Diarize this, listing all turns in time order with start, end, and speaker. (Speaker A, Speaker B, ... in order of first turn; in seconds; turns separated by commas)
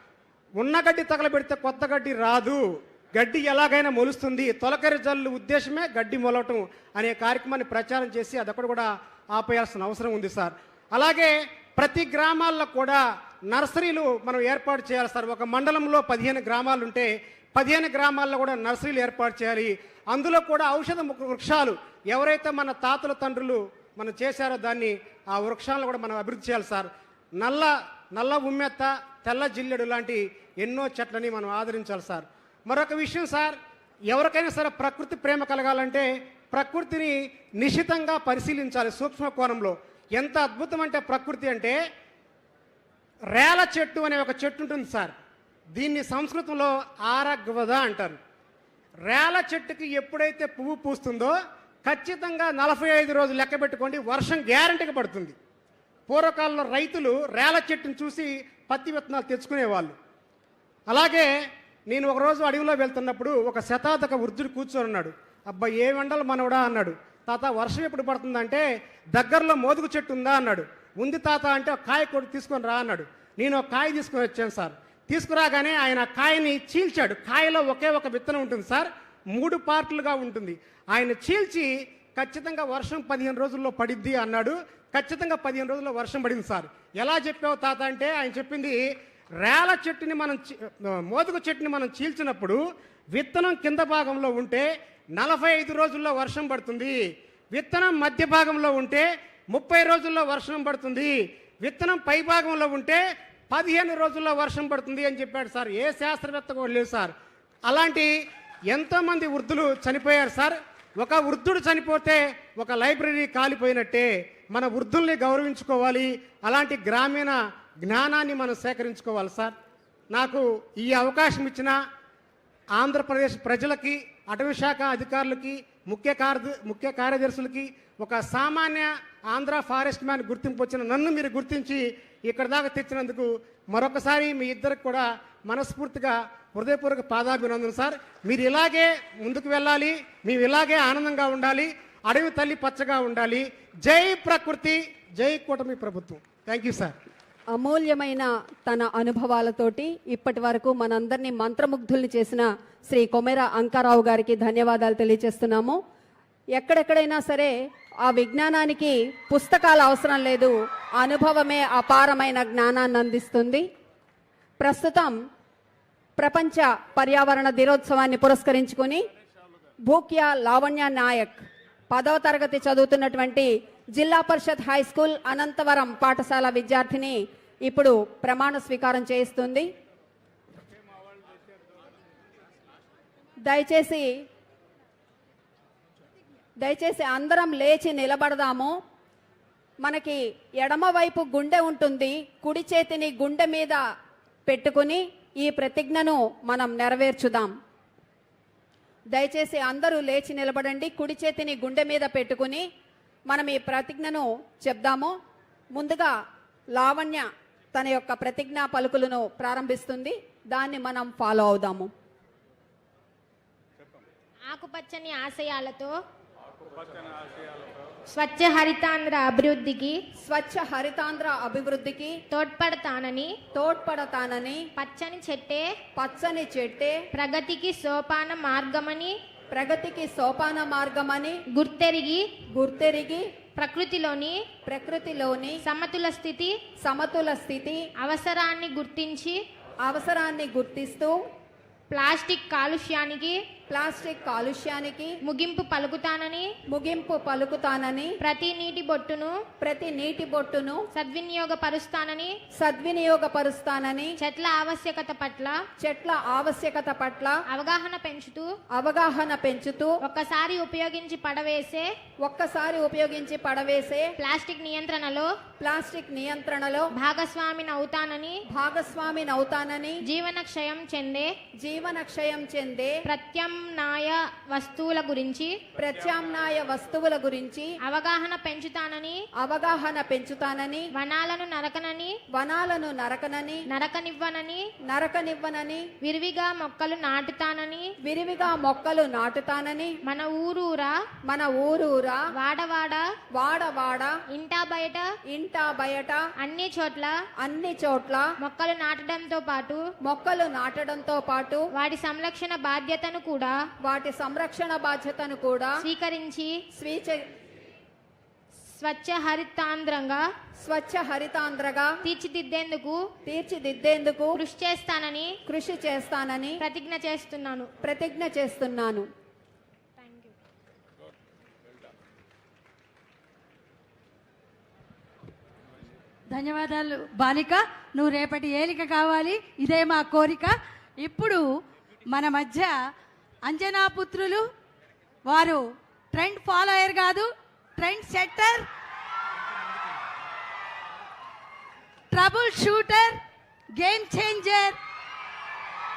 Speaker A: 0.6-33.6, Speaker A: 34.1-41.8, Speaker A: 43.3-45.1, Speaker A: 45.7-48.2, Speaker A: 49.0-55.4, Speaker A: 56.1-59.9, Speaker A: 60.9-61.3, Speaker A: 61.9-88.9, Speaker A: 89.4-92.6, Speaker A: 93.1-97.0, Speaker A: 97.5-107.1, Speaker A: 107.7-108.1, Speaker A: 108.7-119.5, Speaker A: 120.1-121.8, Speaker A: 122.7-146.9, Speaker B: 147.5-155.8, Speaker B: 156.6-157.5, Speaker B: 158.1-163.7, Speaker B: 164.6-165.1, Speaker B: 166.2-169.1, Speaker B: 169.9-179.7, Speaker B: 183.4-184.1, Speaker B: 186.6-188.7, Speaker B: 189.8-193.8, Speaker B: 194.4-197.5, Speaker B: 199.1-202.6, Speaker B: 203.3-205.1, Speaker B: 205.7-206.1, Speaker B: 206.7-211.9, Speaker C: 214.4-215.9, Speaker C: 218.1-220.0, Speaker B: 220.2-222.2, Speaker C: 222.3-223.3, Speaker B: 223.5-224.7, Speaker C: 224.8-225.6, Speaker B: 225.9-227.0, Speaker C: 227.1-229.1, Speaker B: 229.5-231.4, Speaker C: 231.5-232.2, Speaker B: 232.5-233.3, Speaker C: 233.5-234.4, Speaker B: 234.7-235.6, Speaker C: 235.6-236.5, Speaker B: 236.8-237.8, Speaker C: 238.0-239.4, Speaker B: 239.8-241.2, Speaker C: 241.9-243.4, Speaker B: 243.7-245.2, Speaker C: 245.2-246.5, Speaker B: 246.7-248.2, Speaker C: 248.2-249.3, Speaker B: 249.6-250.8, Speaker C: 250.9-252.3, Speaker B: 252.6-254.2, Speaker C: 254.2-255.6, Speaker B: 255.8-257.4, Speaker C: 257.5-258.5, Speaker B: 258.8-259.9, Speaker C: 260.0-261.9, Speaker B: 262.2-264.1, Speaker C: 264.2-265.3, Speaker B: 265.6-266.9, Speaker C: 266.9-268.4, Speaker B: 268.5-270.0, Speaker C: 270.1-271.3, Speaker B: 271.6-273.0, Speaker C: 273.1-275.6, Speaker B: 275.8-277.7, Speaker C: 277.8-279.2, Speaker B: 279.4-280.9, Speaker C: 280.9-282.1, Speaker B: 282.3-283.6, Speaker C: 283.7-284.6, Speaker B: 284.9-285.9, Speaker C: 286.0-287.9, Speaker B: 288.0-290.0, Speaker C: 290.0-290.9, Speaker B: 291.2-292.2, Speaker C: 292.3-293.0, Speaker B: 293.3-294.2, Speaker C: 294.3-295.1, Speaker B: 295.3-296.2, Speaker C: 296.4-297.1, Speaker B: 297.4-298.3, Speaker C: 298.4-299.8, Speaker B: 300.0-301.7, Speaker C: 301.8-303.6, Speaker B: 303.8-305.8, Speaker C: 305.8-306.6, Speaker B: 306.7-307.2, Speaker C: 308.7-310.2, Speaker B: 310.6-311.9, Speaker C: 312.0-313.1, Speaker B: 313.2-314.4, Speaker C: 314.4-315.3, Speaker B: 315.4-316.6, Speaker C: 316.6-317.7, Speaker B: 317.8-319.1, Speaker C: 320.0-320.3, Speaker D: 326.3-331.4, Speaker D: 332.1-332.7, Speaker D: 333.4-334.5, Speaker D: 335.3-338.7, Speaker D: 342.1-343.2, Speaker D: 343.8-344.8